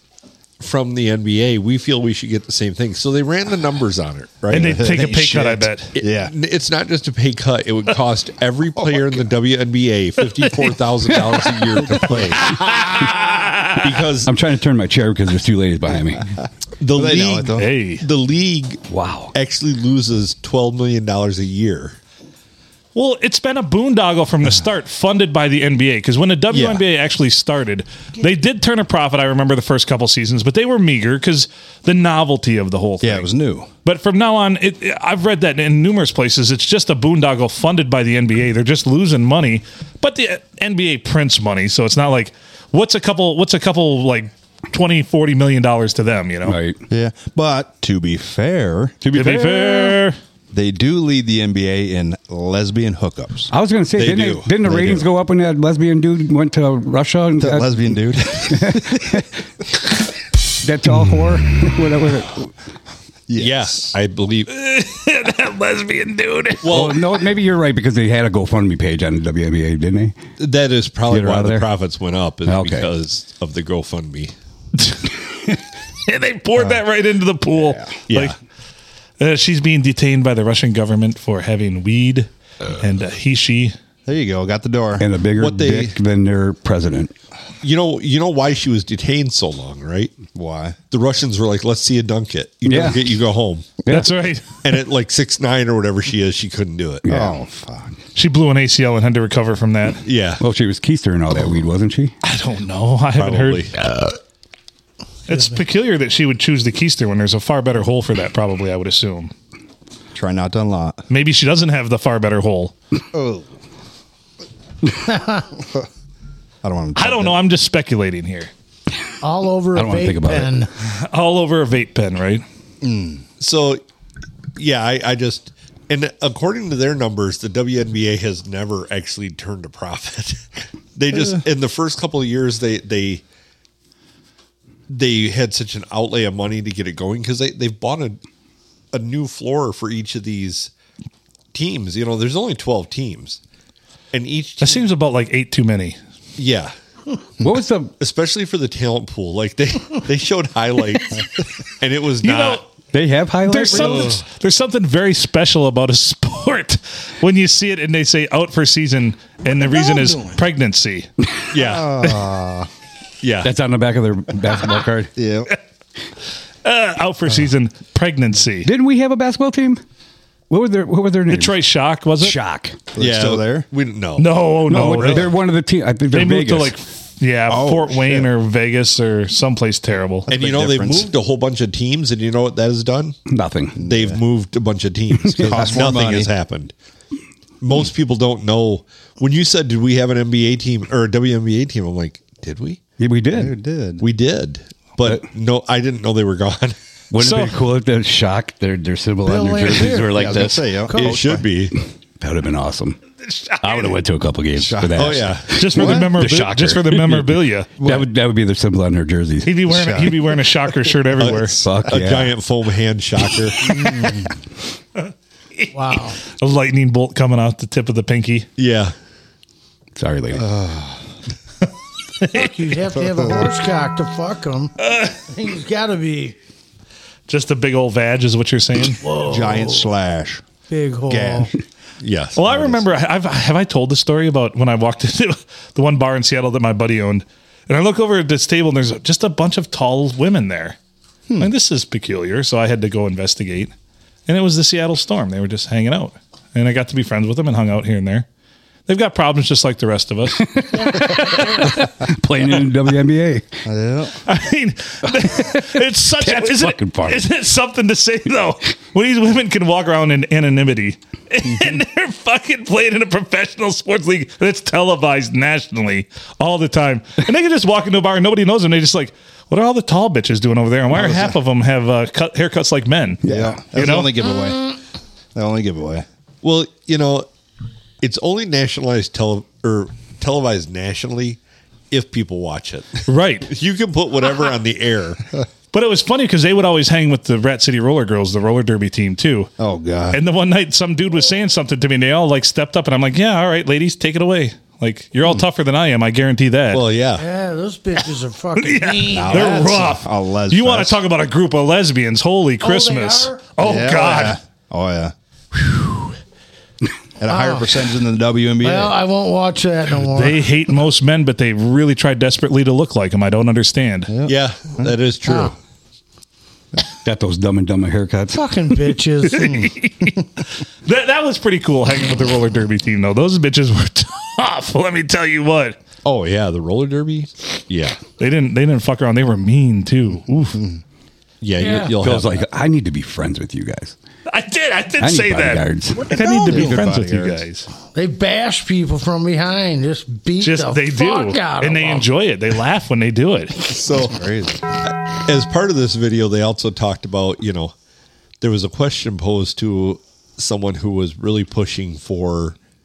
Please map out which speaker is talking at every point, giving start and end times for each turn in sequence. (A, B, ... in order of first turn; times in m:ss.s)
0:00.6-0:04.8 A
0:04.5-0:06.3 B
0:04.5-0:06.0 C
0:06.0-0:12.6 A
0:08.8-0:09.3 B
0:11.3-0:11.9 C
0:12.0-0:13.1 B
0:12.4-0:13.7 C
0:13.8-0:14.3 A
0:14.3-0:16.2 D
0:16.8-0:18.8 A
0:16.9-0:17.7 B
0:17.6-0:18.1 C
0:18.9-0:19.3 D
0:19.3-0:22.0 A
0:23.0-0:33.3 C
0:26.5-0:26.8 B
0:33.0-0:33.7 B
0:33.8-0:46.6 C
0:46.4-0:46.8 D
0:46.9-0:49.0 B
0:49.0-0:50.0 D
0:49.1-0:50.2 C
0:50.5-0:53.5 B
0:53.5-0:59.3 D
0:54.0-0:54.5 A
0:54.6-0:55.0 B
0:57.4-0:59.2 B
1:00.6-1:02.5 D
1:03.3-1:04.0 B
1:03.4-1:04.5 A
1:04.5-1:06.7 C
1:06.6-1:07.0 A
1:06.7-1:10.2 D
1:10.4-1:14.3 A
1:11.1-1:11.7 D
1:12.5-1:12.9 D
1:14.8-1:18.3 C
1:18.1-1:18.4 A
1:19.2-1:23.8 C
1:24.1-1:25.1 B
1:25.0-1:27.1 D
1:25.4-1:26.0 A
1:27.6-1:30.2 A
1:30.3-1:30.8 B
1:30.9-1:33.8 A
1:32.6-1:33.0 D
1:33.9-1:34.1 D
1:33.9-1:34.6 C
1:34.6-1:37.0 A
1:37.0-1:37.4 D
1:37.1-1:38.0 B
1:38.2-1:40.0 C
1:40.0-1:40.4 A
1:40.4-1:42.1 D
1:42.2-1:43.7 C
1:43.2-1:43.7 A
1:45.3-1:49.3 C
1:50.1-1:51.0 B
1:51.1-1:52.7 C
1:53.1-1:53.5 B
1:55.1-1:55.4 E
1:56.6-1:57.4 B
1:57.0-1:58.5 C
1:59.2-2:00.7 E
1:59.8-2:00.5 D
2:00.8-2:02.4 C
2:02.8-2:03.2 B
2:03.4-2:03.8 A
2:04.6-2:13.2 A
2:11.1-2:11.4 B
2:14.9-2:18.2 A
2:18.9-2:20.7 A
2:21.5-2:23.4 A
2:24.1-2:24.8 A
2:24.6-2:26.0 C
2:26.4-2:26.7 A
2:27.4-2:27.9 D
2:28.0-2:31.2 A
2:31.8-2:32.6 A
2:32.2-2:32.6 C
2:32.9-2:34.2 D
2:33.4-2:41.1 C
2:33.7-2:34.2 B
2:39.6-2:40.2 B
2:41.5-2:42.0 A
2:41.6-2:42.7 B
2:43.2-2:43.5 A
2:43.4-2:45.1 D
2:45.2-2:45.5 B
2:46.6-2:48.7 C
2:48.6-2:49.8 D
2:50.5-2:51.6 D
2:51.3-2:52.4 C
2:52.2-2:52.8 D
2:53.0-2:53.7 B
2:53.0-2:54.3 A
2:54.2-2:55.3 C
2:54.7-2:56.8 D
2:54.8-2:55.2 A
2:56.1-3:00.3 C
2:57.5-2:58.3 B
3:00.3-3:01.1 B
3:00.3-3:03.2 A
3:03.3-3:03.8 D
3:03.8-3:04.2 B
3:03.8-3:06.7 A
3:05.2-3:05.7 D
3:05.3-3:06.3 B
3:07.6-3:12.8 A
3:13.0-3:13.6 D
3:13.3-3:14.0 B
3:14.0-3:16.8 A
3:17.1-3:20.8 D
3:17.2-3:17.6 C
3:19.3-3:21.2 E
3:19.6-3:21.5 B
3:21.0-3:21.8 A
3:22.2-3:23.0 D
3:23.3-3:24.0 C
3:23.6-3:29.8 D
3:24.6-3:26.1 B
3:25.0-3:25.6 A
3:25.6-3:27.7 C
3:27.8-3:28.1 B
3:29.4-3:31.6 C
3:29.7-3:30.4 B
3:31.2-3:33.8 A
3:31.4-3:32.3 D
3:33.6-3:34.4 B
3:35.7-3:36.2 E
3:36.2-3:38.5 C
3:38.6-3:38.9 A
3:40.0-3:40.5 D
3:40.3-3:41.0 B
3:42.2-3:42.5 C
3:42.3-3:46.4 E
3:43.2-3:43.4 B
3:44.9-3:45.1 C
3:47.3-3:49.0 C
3:49.0-3:49.9 E
3:49.2-3:50.4 B
3:50.7-3:51.5 E
3:51.1-3:51.6 B
3:52.0-3:52.4 A
3:52.4-4:00.8 C
3:52.5-3:52.8 B
4:01.4-4:03.7 C
4:04.3-4:08.3 C
4:08.9-4:11.7 C
4:10.4-4:13.5 D
4:13.7-4:14.2 B
4:14.3-4:34.1 C
4:16.2-4:17.2 D
4:30.9-4:31.4 B
4:33.2-4:33.6 D
4:33.2-4:34.8 B
4:35.4-4:36.1 B
4:36.4-4:37.3 A
4:38.0-4:41.4 A
4:41.9-4:45.2 A
4:43.1-4:43.5 C
4:45.7-4:49.5 C
4:49.6-4:50.2 B
4:50.1-4:56.8 C
4:56.7-4:57.2 A
4:57.2-4:59.8 E
4:58.6-5:04.4 C
4:59.1-5:01.0 B
5:02.6-5:03.5 E
5:03.6-5:05.1 B
5:07.2-5:09.0 B
5:07.3-5:07.8 E
5:08.6-5:10.5 E
5:10.1-5:14.1 C
5:14.1-5:14.9 B
5:14.3-5:15.6 A
5:15.2-5:15.5 E
5:17.0-5:18.4 D
5:18.3-5:19.6 E
5:19.3-5:20.3 C
5:19.4-5:19.8 B
5:20.8-5:25.8 C
5:26.0-5:28.0 A
5:28.2-5:30.6 C
5:31.4-5:32.4 A
5:31.6-5:31.9 E
5:32.0-5:34.0 D
5:34.3-5:37.7 C
5:35.0-5:36.0 D
5:36.1-5:37.4 B
5:36.1-5:36.6 E
5:38.0-5:42.1 E
5:40.4-5:43.6 C
5:43.6-5:44.2 A
5:44.1-5:44.7 B
5:44.8-5:47.7 A
5:48.4-5:52.6 A